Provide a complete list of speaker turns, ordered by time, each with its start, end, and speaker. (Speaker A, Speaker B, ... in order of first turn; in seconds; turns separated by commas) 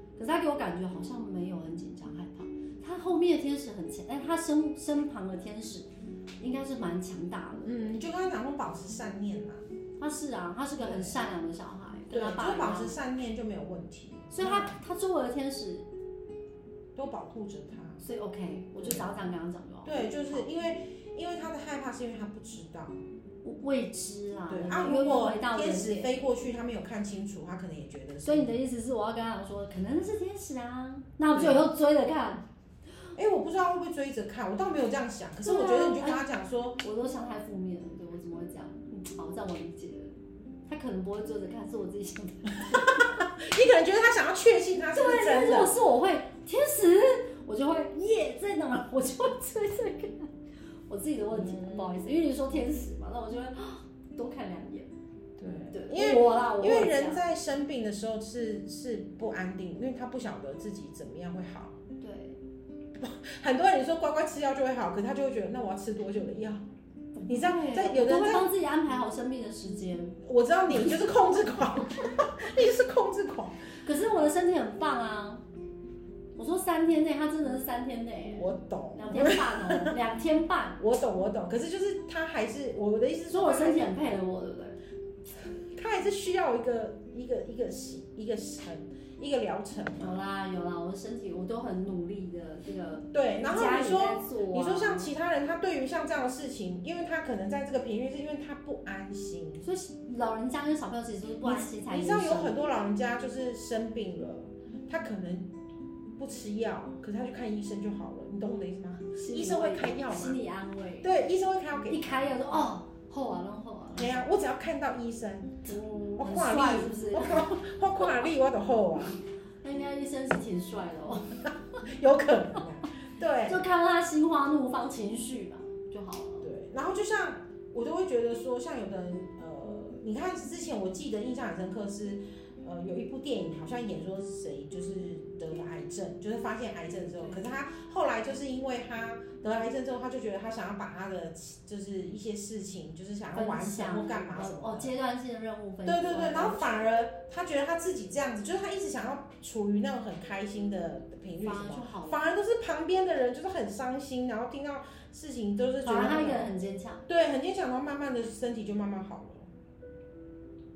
Speaker A: 0.2-5.9, Speaker A: 6.4-8.0, Speaker B: 7.6-9.7, Speaker A: 10.0-13.0, Speaker B: 10.8-11.2, Speaker B: 12.1-14.8, Speaker A: 14.3-15.9, Speaker B: 16.9-18.0, Speaker A: 18.0-20.5, Speaker B: 18.8-19.1, Speaker B: 19.9-23.0, Speaker A: 23.4-26.2, Speaker B: 24.5-28.6, Speaker A: 28.2-32.5, Speaker B: 31.3-31.7, Speaker B: 33.1-36.8, Speaker A: 35.4-36.2, Speaker A: 36.8-43.3, Speaker B: 42.7-45.7, Speaker A: 44.9-50.3, Speaker A: 50.9-54.9, Speaker B: 51.3-52.0, Speaker B: 55.4-61.8, Speaker A: 55.7-57.2, Speaker A: 62.0-62.4, Speaker B: 63.0-66.7, Speaker A: 67.2-70.2, Speaker B: 67.3-68.5, Speaker B: 70.2-73.6, Speaker A: 70.7-71.0, Speaker A: 73.8-75.4, Speaker A: 76.4-80.8, Speaker B: 78.3-80.0, Speaker B: 80.8-84.0, Speaker A: 83.3-84.8, Speaker B: 85.6-90.2, Speaker A: 90.0-95.1, Speaker B: 93.1-99.6, Speaker A: 99.6-102.7, Speaker B: 101.4-105.5, Speaker B: 106.2-110.4, Speaker A: 109.1-111.1, Speaker B: 111.0-112.1, Speaker A: 111.9-114.3, Speaker B: 114.0-119.2, Speaker A: 115.7-118.2, Speaker A: 119.6-121.5, Speaker B: 121.8-123.6, Speaker A: 123.5-126.5, Speaker B: 126.4-144.9, Speaker A: 143.3-146.9, Speaker B: 145.8-156.5, Speaker A: 151.4-152.2, Speaker A: 155.8-157.0, Speaker B: 157.1-159.5